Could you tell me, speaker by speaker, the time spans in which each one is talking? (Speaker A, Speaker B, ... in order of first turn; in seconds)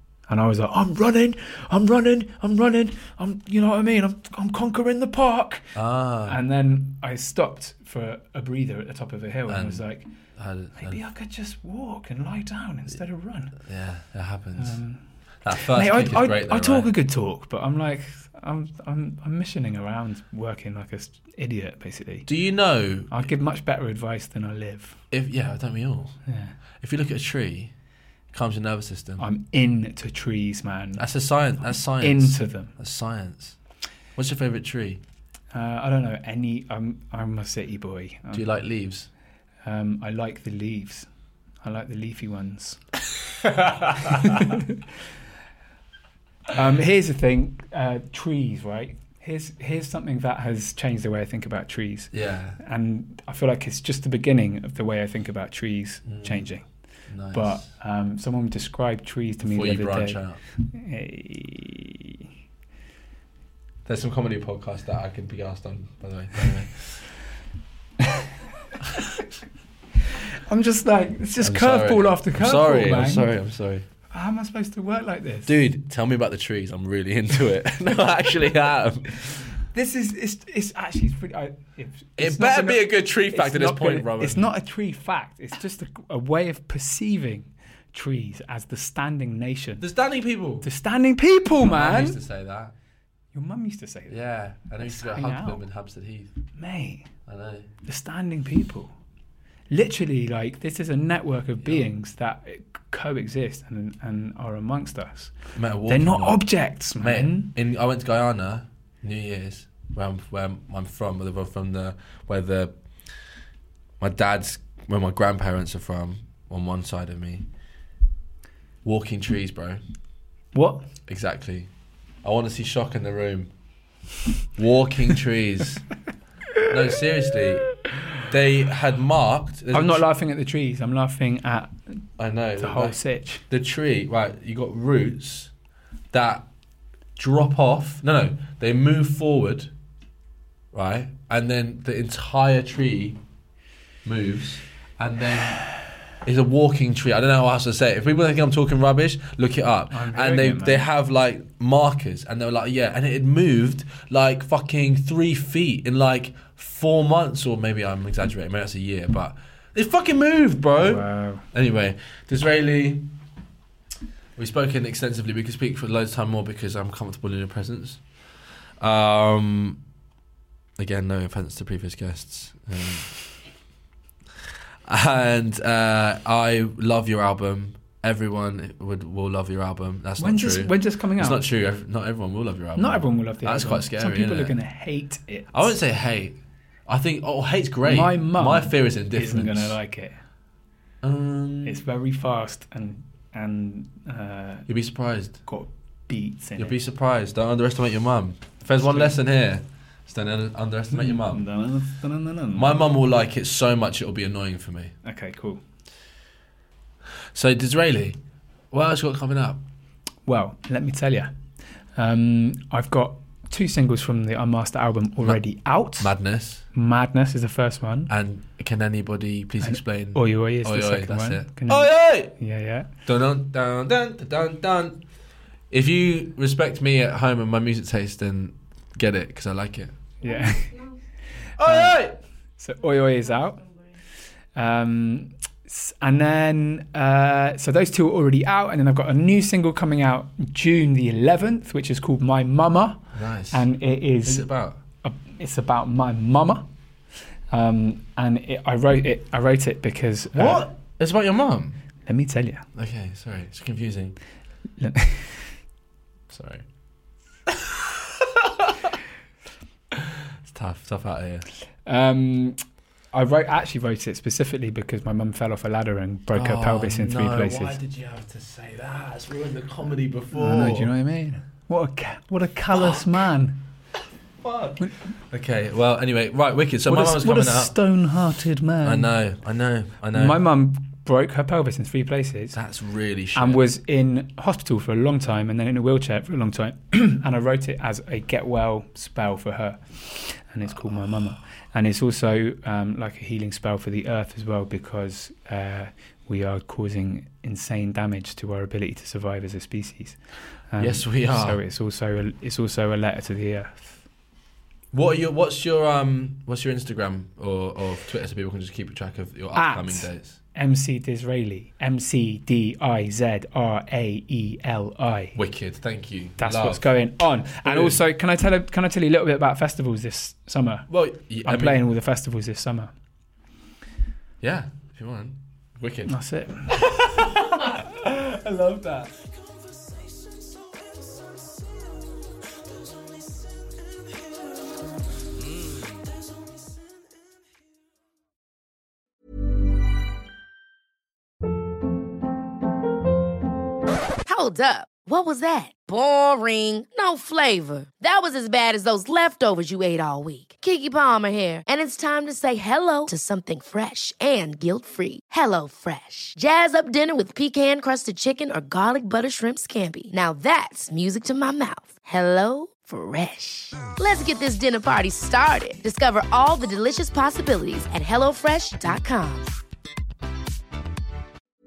Speaker A: 0.3-5.7, 6.3-10.1, 10.8-13.6, 14.6-15.0, 15.7-22.3, 23.1-25.0, 26.3-26.6, 29.2-31.1, 31.6-32.7, 35.5-38.5, 39.6-41.1, 41.6-42.8, 43.5-44.8, 46.5-56.6, 57.3-62.2, 70.3-73.3, 74.1-75.6, 79.6-89.9, 90.6-92.2, 93.3-94.2, 94.8-95.6, 96.6-97.1, 97.8-98.9, 99.7-105.3, 105.9-107.5, 120.5-120.9, 129.7-132.0, 132.6-133.4, 149.9-150.9, 160.8-161.5, 180.2-181.5, 182.8-185.7, 187.8-190.2, 191.6-194.7, 195.4-196.8, 198.8-199.2, 200.9-202.8, 205.0-205.6, 210.3-211.3, 212.0-216.1, 216.7-218.1, 219.6-222.9, 230.2-230.8, 231.6-233.7, 234.6-244.5, 245.0-246.7, 247.5-250.7, 252.1-252.7, 254.8-255.6, 261.9-267.8, 270.3-273.6, 276.9-279.1, 280.1-282.6, 283.4-300.2, 300.7-304.0, 309.5-315.4, 316.4-320.9, 321.4-322.9, 326.1-327.0, 327.6-329.1
Speaker B: 5.8-6.4, 9.5-9.8, 10.4-11.0, 13.6-14.8, 15.4-16.9, 22.3-23.3, 25.1-26.2, 26.8-27.7, 28.3-29.2, 31.0-33.6, 34.2-35.0, 38.3-39.1, 52.1-52.6, 56.0-56.5, 57.1-57.7, 59.4-60.4, 63.9-67.1, 71.4-73.8, 75.5-79.6, 82.2-84.5, 89.8-90.7, 91.6-92.7, 94.1-96.4, 97.3-97.7, 105.5-112.8, 114.0-117.5, 118.8-119.8, 121.1-121.7, 122.2-123.5, 124.6-125.8, 126.7-130.1, 132.2-133.0, 133.5-135.5, 136.1-136.5, 137.2-139.7, 140.7-143.2, 144.1-145.7, 146.2-163.1, 164.4-168.0, 168.8-169.8, 170.8-173.1, 174.9-184.6, 185.5-189.8, 191.0-191.8, 194.7-195.4, 196.6-201.4, 202.5-204.9, 207.3-208.2, 208.7-209.6, 216.0-216.7, 218.1-222.4, 223.1-225.0, 225.7-229.9, 231.6-232.2, 243.1-243.7, 244.2-244.8, 250.3-251.8, 252.7-254.2, 256.3-256.7, 257.5-258.9, 260.0-261.5, 266.3-270.9, 272.7-273.0, 274.4-277.8, 278.8-280.4, 282.5-283.6, 300.8-301.6, 304.9-310.4, 315.4-316.9, 317.6-318.0, 320.9-321.8, 324.4-326.1, 326.7-327.7, 335.4-336.0
Speaker C: 344.2-369.5